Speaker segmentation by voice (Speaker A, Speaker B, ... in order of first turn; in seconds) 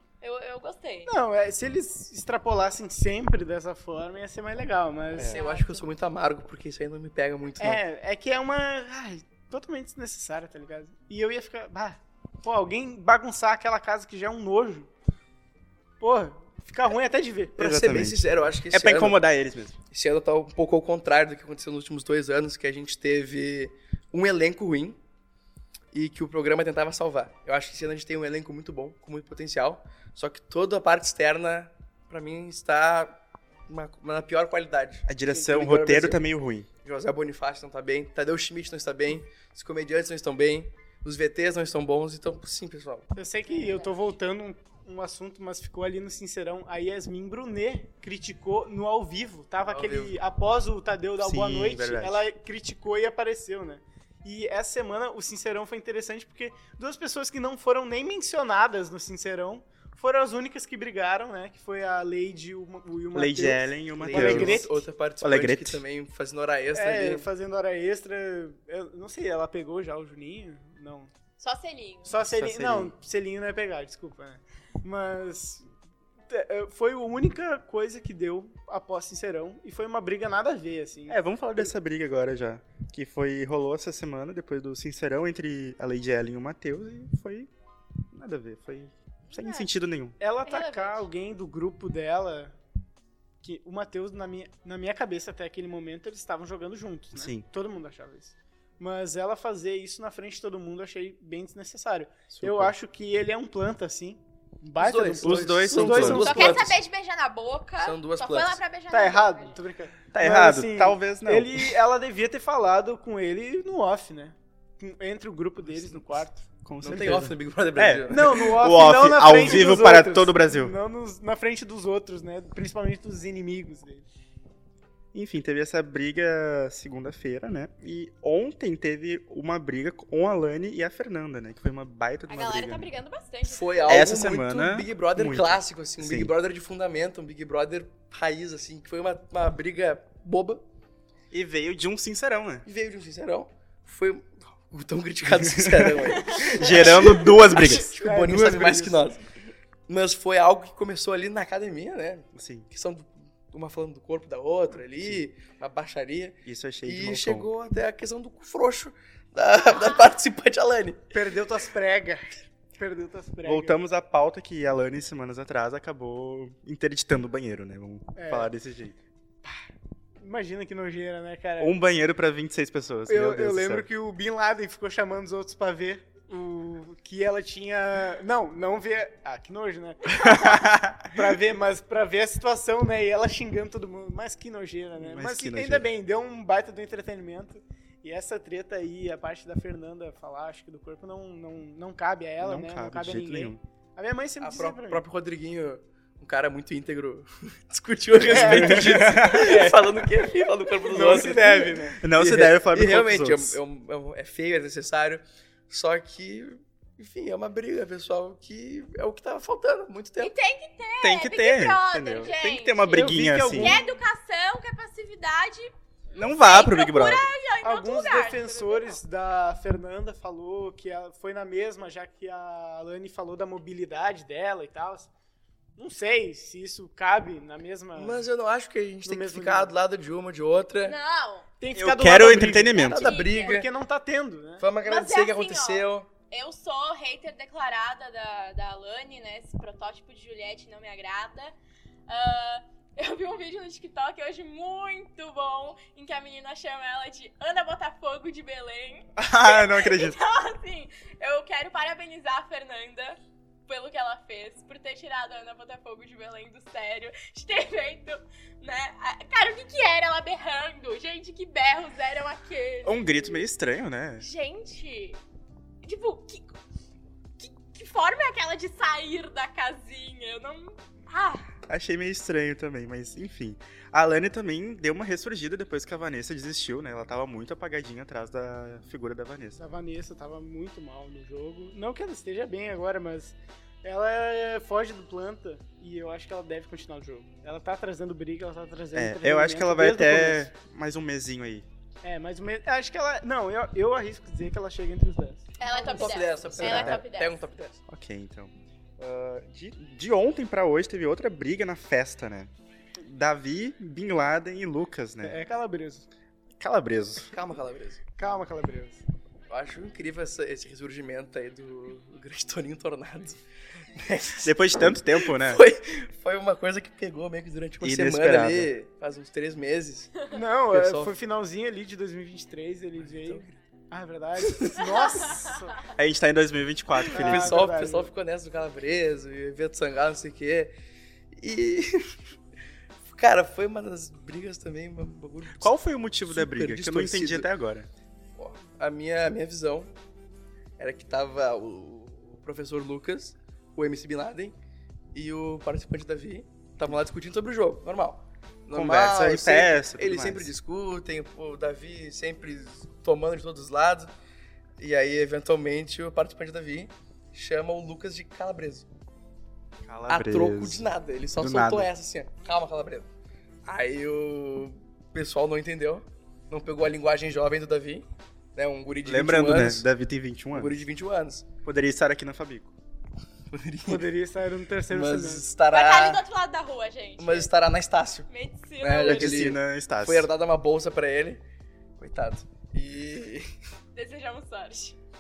Speaker A: 0.2-1.1, 5.2-5.9, 43.5-44.1, 71.4-72.1, 89.3-89.7, 90.5-91.1, 106.0-109.6, 132.3-134.1, 146.1-146.5, 210.2-215.7, 216.3-219.0, 230.8-231.5, 232.8-233.6, 234.8-241.5, 242.1-263.4, 264.2-265.2, 265.8-266.6, 267.4-271.5, 295.6-297.4, 324.8-325.7, 375.7-377.5, 378.3-379.5, 383.9-384.9
Speaker B: 1.1-5.4, 7.6-14.9, 16.0-17.7, 43.1-64.8, 66.7-71.1, 72.0-75.7, 76.3-81.7, 90.2-92.5, 93.4-106.7, 108.9-116.5, 118.1-124.0, 146.6-149.1, 161.1-163.8, 168.2-168.5, 170.2-171.8, 173.1-195.0, 198.2-199.8, 200.8-202.0, 212.9-213.9, 217.6-225.1, 225.8-228.2, 229.0-229.7, 231.6-234.6, 279.6-290.5, 292.0-295.5, 305.2-306.1, 308.2-309.0, 320.3-325.8, 327.1-328.1, 373.9-375.5
Speaker C: 5.2-7.8, 17.6-19.2, 19.9-25.0, 25.9-36.2, 36.8-43.1, 49.6-50.2, 64.0-67.3, 104.8-106.8, 107.8-108.6, 116.8-118.5, 133.4-140.6, 142.6-149.2, 149.9-161.1, 194.4-210.3, 227.9-231.0, 232.8-233.7, 234.6-236.1, 295.7-297.8, 307.3-308.0, 309.5-313.4, 313.9-321.1, 324.4-324.8, 327.1-330.7, 331.3-332.1, 333.0-335.7, 336.2-337.5, 338.4-339.9, 340.8-344.5, 345.1-354.1, 354.8-358.9, 360.1-363.1, 363.6-369.9, 370.5-371.4, 373.5-374.1, 374.9-376.2, 377.2-378.3, 378.8-381.4, 382.0-383.5
Speaker D: 17.6-19.8, 35.1-36.7, 51.2-52.2, 63.1-64.6, 65.2-65.8, 72.2-72.9, 81.1-87.5, 88.1-90.2, 97.1-97.5, 102.3-102.7, 105.2-106.3, 110.1-111.7, 116.6-120.7, 125.1-132.9, 133.9-136.3, 141.3-142.7, 145.4-147.9, 152.3-152.7, 156.4-157.5, 163.4-168.9, 171.6-173.9, 180.1-181.2, 185.0-185.8, 192.4-193.6, 198.3-199.7, 202.0-203.6, 211.0-213.8, 216.1-217.3, 231.8-233.1, 249.2-250.2, 262.8-264.2, 271.7-279.6, 288.9-291.7, 296.6-297.0, 297.9-305.4, 306.6-307.3, 314.4-315.6, 317.8-318.7, 325.9-327.6, 335.6-337.9, 348.7-350.5, 359.8-361.9, 369.0-370.8, 371.6-372.7, 379.0-380.3